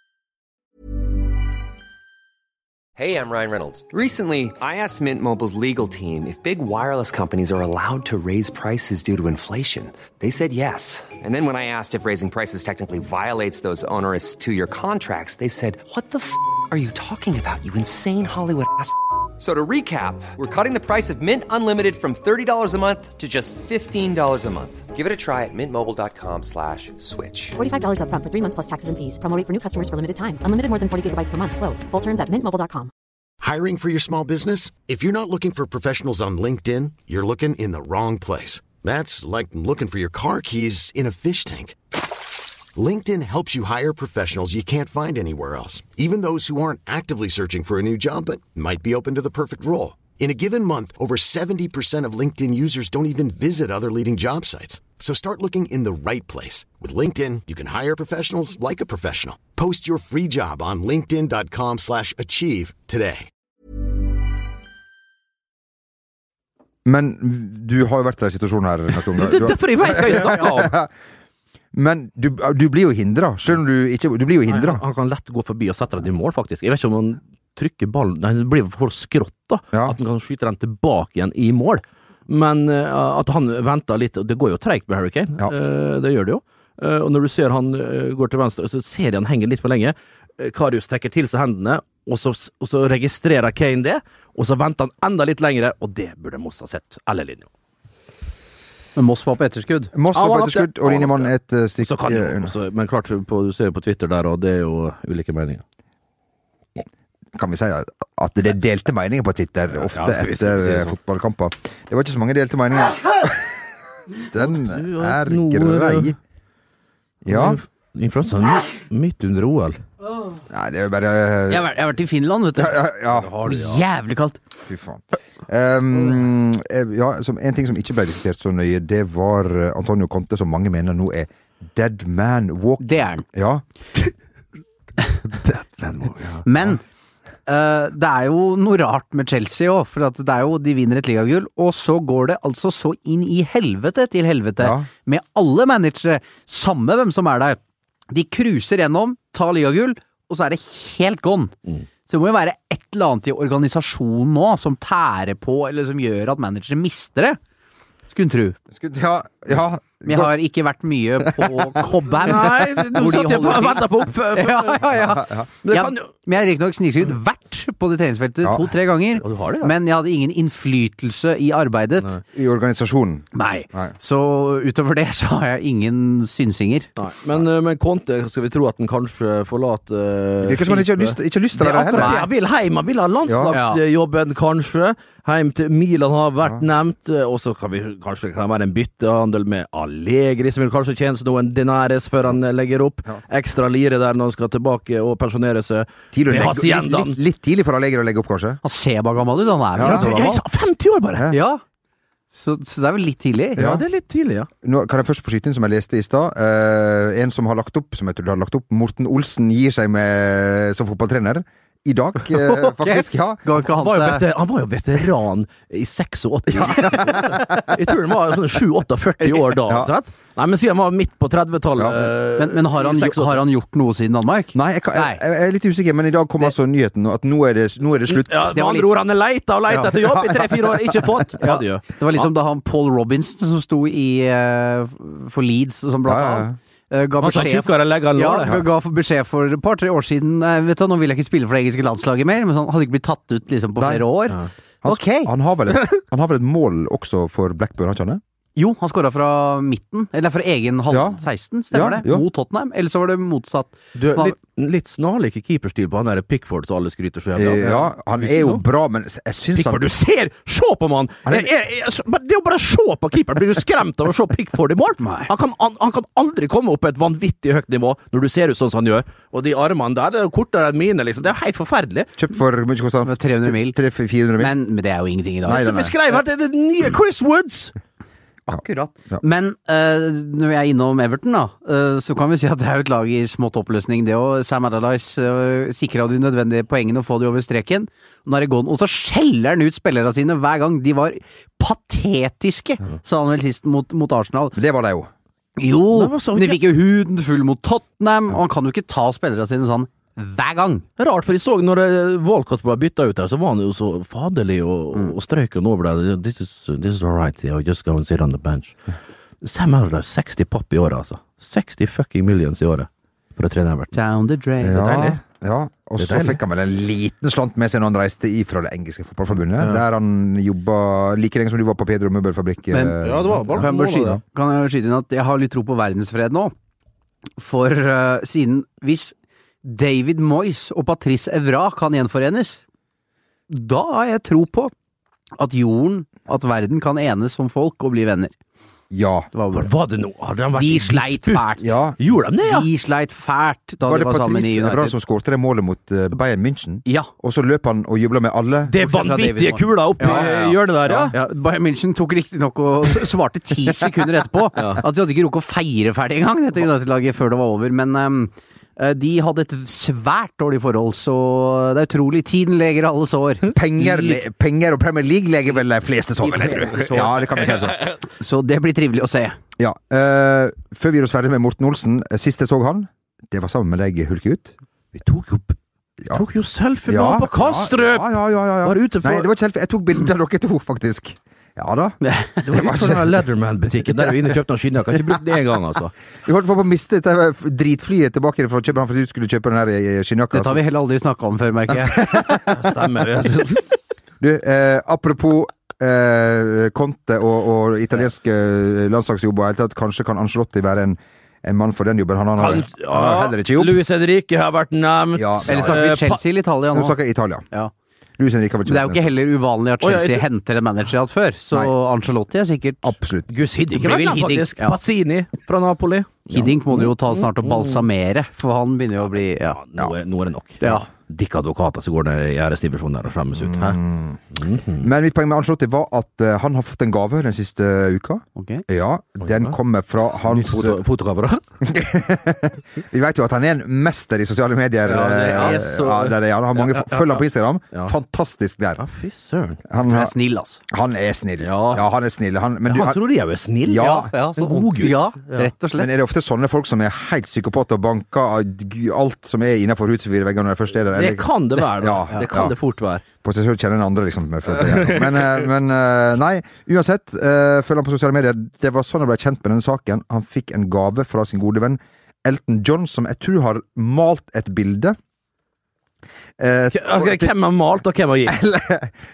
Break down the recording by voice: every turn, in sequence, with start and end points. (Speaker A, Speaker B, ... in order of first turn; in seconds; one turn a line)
Speaker A: 3.0-27.6
Speaker B: 27.6-32.9
Speaker C: 33.4-41.8
Speaker C: 42.7-63.3
Speaker D: 66.8-70.9
Speaker E: 69.1-70.8
Speaker D: 71.7-74.8
Speaker E: 74.5-97.5
Speaker F: 99.0-99.9
Speaker D: 99.9-102.5
Speaker E: 100.1-105.6
Speaker D: 107.3-113.5
Speaker E: 109.7-110.9
Speaker D: 114.3-116.2
Speaker E: 114.3-116.1
Speaker D: 117.2-117.6
Speaker E: 117.3-119.8
Speaker D: 120.5-121.7
Speaker F: 121.5-122.8
Speaker D: 122.5-123.3
Speaker E: 123.1-123.8
Speaker F: 123.4-124.4
Speaker D: 124.7-133.6
Speaker F: 132.8-133.2
Speaker E: 135.3-136.4
Speaker F: 136.4-136.8
Speaker F: 137.5-147.6
Speaker D: 144.6-144.9
Speaker F: 148.1-151.5
Speaker F: 152.1-157.4
Speaker F: 158.1-158.6
Speaker D: 158.7-160.3
Speaker F: 160.0-172.2
Speaker E: 162.1-166.1
Speaker E: 169.2-169.7
Speaker D: 172.3-173.9
Speaker F: 173.3-176.9
Speaker E: 177.0-197.2
Speaker D: 180.4-182.2
Speaker F: 181.9-182.3
Speaker D: 183.3-183.5
Speaker F: 183.5-183.8
Speaker D: 196.1-198.6
Speaker F: 198.6-200.2
Speaker D: 199.8-200.4
Speaker E: 199.8-201.3
Speaker F: 201.3-201.6
Speaker F: 202.3-203.6
Speaker E: 203.6-204.5
Speaker D: 203.6-203.8
Speaker D: 204.6-213.4
Speaker F: 212.3-214.2
Speaker E: 213.6-223.4
Speaker D: 216.5-217.6
Speaker D: 219.6-219.9
Speaker D: 221.8-222.1
Speaker F: 222.4-225.2
Speaker D: 224.5-228.6
Speaker E: 228.1-232.2
Speaker F: 228.5-229.0
Speaker F: 229.7-230.0
Speaker D: 230.3-230.6
Speaker F: 231.4-245.3
Speaker D: 236.1-236.6
Speaker E: 237.2-238.6
Speaker D: 243.8-244.1
Speaker D: 244.8-248.2
Speaker F: 248.6-254.3
Speaker D: 250.9-252.2
Speaker E: 253.9-258.6
Speaker D: 257.4-259.9
Speaker E: 259.5-272.1
Speaker F: 265.0-265.3
Speaker D: 272.2-274.5
Speaker F: 273.0-273.8
Speaker F: 274.4-275.7
Speaker D: 275.4-275.9
Speaker E: 275.4-277.7
Speaker F: 278.5-294.6
Speaker D: 278.5-279.2
Speaker D: 294.5-295.1
Speaker F: 295.6-300.9
Speaker E: 295.9-296.6
Speaker E: 301.0-308.8
Speaker E: 309.4-313.9
Speaker F: 313.9-315.1
Speaker D: 314.6-324.2
Speaker E: 314.8-315.1
Speaker E: 316.0-316.4
Speaker F: 322.7-326.5
Speaker E: 323.0-324.2
Speaker F: 327.4-332.6
Speaker F: 333.5-334.7
Speaker F: 335.4-338.3
Speaker D: 338.9-339.3
Speaker F: 339.3-339.7
Speaker E: 339.5-341.4
Speaker F: 340.6-341.7
Speaker D: 341.6-341.9
Speaker E: 342.0-342.7
Speaker F: 342.4-344.9
Speaker D: 343.8-348.7
Speaker E: 348.7-351.1
Speaker F: 348.8-364.2
Speaker D: 350.0-350.3
Speaker E: 354.6-354.8
Speaker D: 363.5-367.8
Speaker F: 366.2-367.4
Speaker E: 367.1-367.9
Speaker F: 368.2-369.4
Speaker D: 369.6-374.5
Speaker E: 374.9-375.6
Speaker E: 376.1-379.3
Speaker D: 376.9-382.0
Speaker F: 382.0-382.5
Speaker E: 382.4-385.9
Speaker D: 382.5-383.0
Speaker D: 386.2-390.6
Speaker F: 390.3-392.4
Speaker E: 392.3-393.7
Speaker D: 394.2-403.8
Speaker E: 402.4-406.2
Speaker D: 405.1-405.8
Speaker F: 405.5-407.0
Speaker D: 406.7-407.4
Speaker D: 408.2-409.1
Speaker F: 408.6-412.9
Speaker E: 409.8-410.2
Speaker D: 412.8-413.3
Speaker E: 413.3-417.9
Speaker F: 413.7-414.8
Speaker F: 416.3-419.6
Speaker E: 419.4-423.8
Speaker F: 420.6-420.9
Speaker D: 423.3-424.2
Speaker E: 424.3-424.9
Speaker D: 424.8-430.8
Speaker F: 428.4-428.6
Speaker E: 429.2-429.6
Speaker E: 430.2-431.4
Speaker D: 431.6-438.8
Speaker E: 434.8-437.9
Speaker F: 435.3-435.6
Speaker E: 438.8-439.6
Speaker D: 439.7-440.1
Speaker F: 439.8-440.6
Speaker D: 440.7-443.0
Speaker E: 441.4-441.9
Speaker E: 442.7-445.5
Speaker D: 443.6-444.1
Speaker F: 443.7-445.9
Speaker D: 445.8-452.5
Speaker E: 450.9-453.0
Speaker D: 453.2-465.0
Speaker E: 454.5-455.3
Speaker D: 466.4-467.3
Speaker E: 466.7-468.4
Speaker D: 468.2-469.0